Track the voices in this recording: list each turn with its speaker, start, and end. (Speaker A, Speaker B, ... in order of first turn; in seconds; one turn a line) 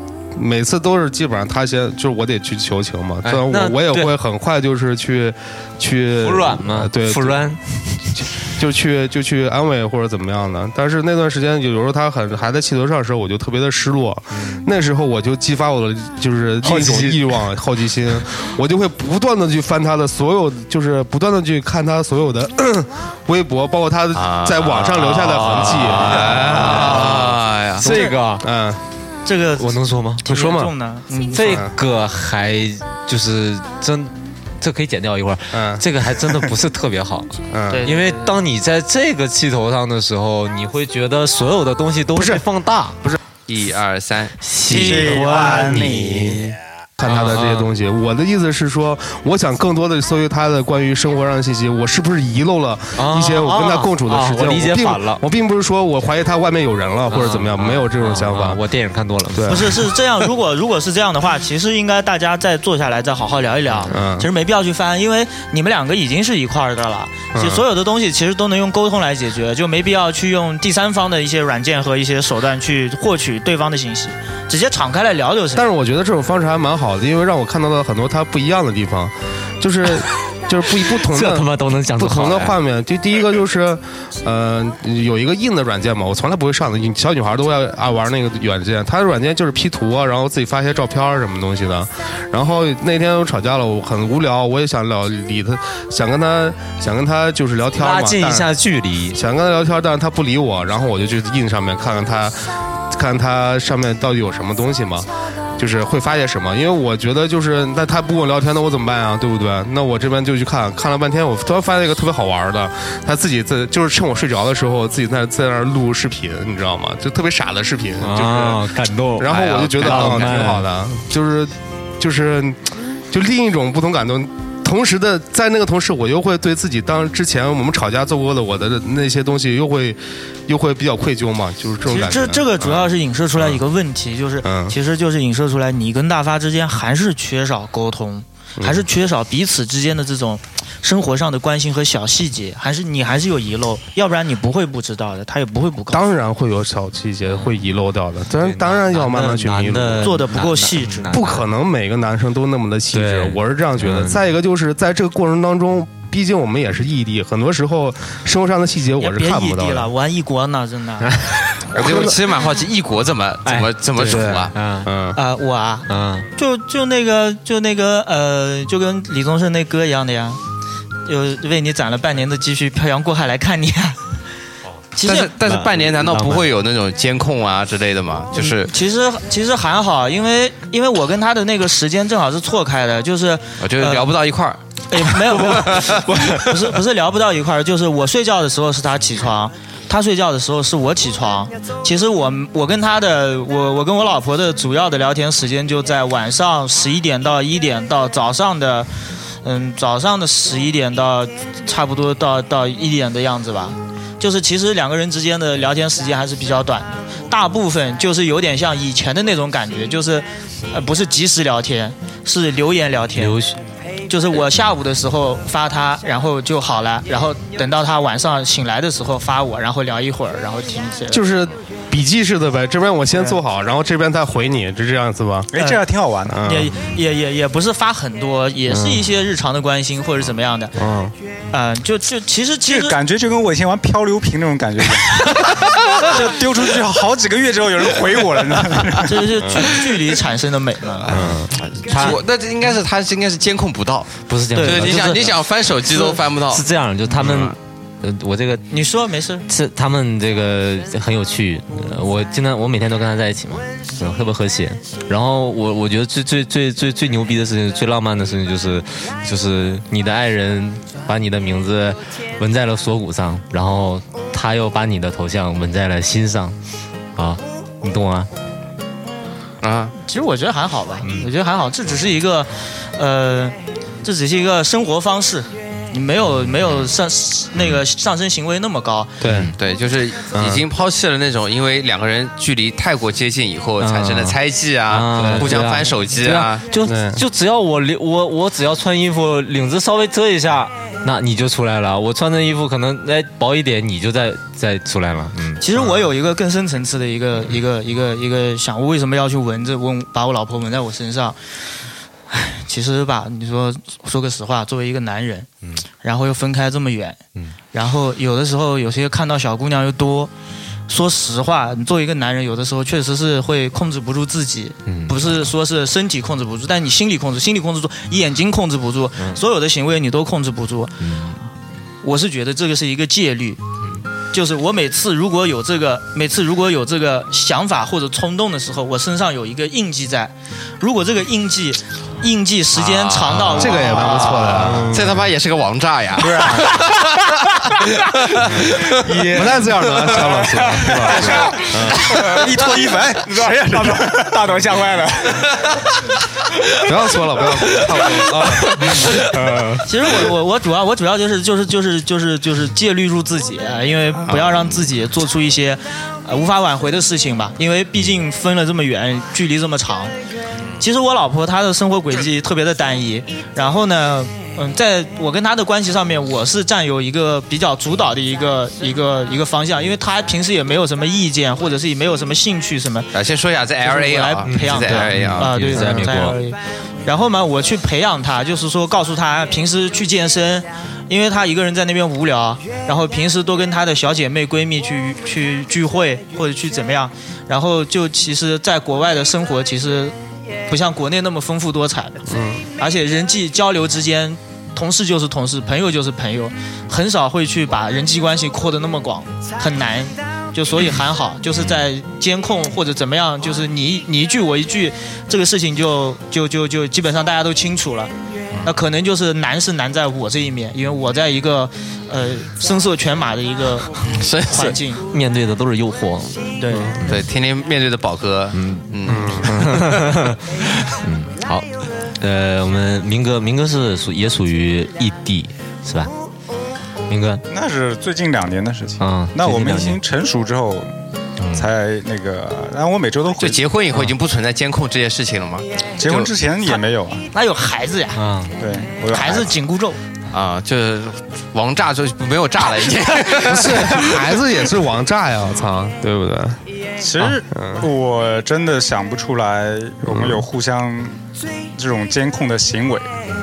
Speaker A: 0.3-7.5
Speaker B: 3.2-4.1
Speaker B: 6.2-8.1
Speaker A: 8.1-28.8
Speaker B: 14.3-14.7
Speaker B: 16.6-17.4
Speaker C: 24.1-27.9
Speaker B: 25.8-27.2
Speaker B: 27.8-28.4
Speaker D: 29.2-31.6
Speaker B: 29.6-30.2
Speaker A: 30.2-30.7
Speaker B: 31.3-43.0
Speaker A: 31.4-31.7
Speaker A: 35.5-36.5
Speaker A: 37.5-37.9
Speaker D: 37.7-38.4
Speaker A: 42.1-42.4
Speaker C: 43.5-45.2
Speaker B: 44.4-46.5
Speaker E: 44.7-46.4
Speaker A: 47.0-58.6
Speaker B: 47.0-47.7
Speaker B: 53.0-55.2
Speaker B: 57.1-59.9
Speaker A: 59.3-59.8
Speaker D: 59.5-75.6
Speaker B: 63.7-64.0
Speaker A: 63.9-64.3
Speaker A: 67.3-67.6
Speaker A: 75.5-98.5
Speaker B: 80.7-82.6
Speaker B: 97.8-99.2
Speaker A: 99.1-133.6
Speaker B: 118.0-120.7
Speaker C: 119.3-120.4
Speaker D: 131.8-146.0
Speaker A: 134.4-134.8
Speaker A: 138.6-138.9
Speaker A: 145.9-150.2
Speaker B: 147.3-147.6
Speaker B: 148.3-151.4
Speaker D: 150.0-151.2
Speaker A: 151.1-159.9
Speaker B: 152.9-154.2
Speaker D: 159.0-161.2
Speaker B: 161.0-161.4
Speaker C: 161.7-164.5
Speaker A: 161.7-162.2
Speaker B: 163.4-164.9
Speaker A: 164.1-165.2
Speaker D: 165.1-170.4
Speaker B: 165.9-166.3
Speaker D: 171.0-174.0
Speaker D: 174.9-175.3
Speaker C: 175.0-178.7
Speaker B: 175.4-176.5
Speaker D: 178.3-184.1
Speaker C: 183.6-186.1
Speaker D: 184.9-198.9
Speaker B: 185.6-186.5
Speaker D: 199.4-213.4
Speaker B: 213.2-213.6
Speaker D: 214.1-221.2
Speaker A: 221.1-225.5
Speaker D: 223.1-223.4
Speaker E: 225.5-226.5
Speaker D: 225.6-225.8
Speaker A: 226.3-226.8
Speaker D: 226.4-230.8
Speaker B: 228.7-229.1
Speaker A: 230.8-231.2
Speaker D: 231.5-233.0
Speaker E: 232.7-239.3
Speaker D: 239.0-241.2
Speaker A: 239.4-239.6
Speaker C: 241.1-246.6
Speaker A: 241.1-241.5
Speaker B: 241.3-242.2
Speaker B: 244.3-245.4
Speaker D: 244.5-245.1
Speaker B: 245.9-248.7
Speaker C: 247.2-247.5
Speaker D: 248.7-249.4
Speaker B: 249.5-266.6
Speaker B: 267.1-268.3
Speaker C: 269.6-269.9
Speaker D: 270.0-279.2
Speaker B: 271.0-271.3
Speaker A: 279.2-279.5
Speaker B: 279.3-279.5
Speaker C: 279.6-286.6
Speaker A: 280.3-280.6
Speaker B: 283.8-284.4
Speaker B: 284.9-295.7
Speaker A: 285.1-285.7
Speaker A: 286.8-287.2
Speaker D: 295.6-301.4
Speaker D: 302.3-305.5
Speaker D: 306.0-307.2
Speaker D: 307.7-310.3
Speaker D: 310.9-321.1
Speaker B: 314.9-315.3
Speaker B: 321.0-321.4
Speaker D: 322.0-323.6
Speaker D: 324.3-334.4
Speaker C: 332.7-339.2
Speaker A: 333.6-335.3
Speaker B: 334.6-334.9
Speaker E: 336.2-336.9
Speaker A: 338.5-342.2
Speaker B: 338.8-342.4
Speaker E: 342.2-344.6
Speaker B: 343.3-345.5
Speaker A: 346.8-348.9
Speaker B: 348.4-349.9
Speaker D: 349.8-360.1
Speaker C: 354.2-354.8
Speaker D: 360.8-373.1
Speaker C: 373.1-375.5
Speaker D: 373.8-390.1
Speaker B: 374.4-376.4
Speaker D: 390.7-392.2
Speaker A: 392.3-392.6
Speaker D: 392.8-408.1
Speaker D: 408.6-415.1
Speaker C: 414.1-414.8
Speaker B: 414.6-417.2
Speaker D: 416.6-416.9
Speaker A: 416.7-416.9
Speaker C: 417.1-419.7
Speaker B: 418.5-420.4
Speaker A: 419.1-419.6
Speaker B: 421.0-421.7
Speaker B: 422.2-426.1
Speaker B: 427.1-427.4
Speaker E: 427.5-430.9
Speaker B: 429.0-430.0
Speaker B: 431.4-431.7
Speaker E: 431.5-433.6
Speaker C: 433.4-436.3
Speaker E: 436.0-437.2
Speaker D: 437.3-438.2
Speaker B: 438.1-438.5
Speaker E: 438.6-439.6
Speaker D: 439.1-440.0
Speaker C: 440.3-444.5
Speaker A: 443.3-446.6
Speaker E: 447.0-451.2
Speaker A: 447.5-447.9
Speaker A: 450.1-450.4
Speaker E: 451.7-453.1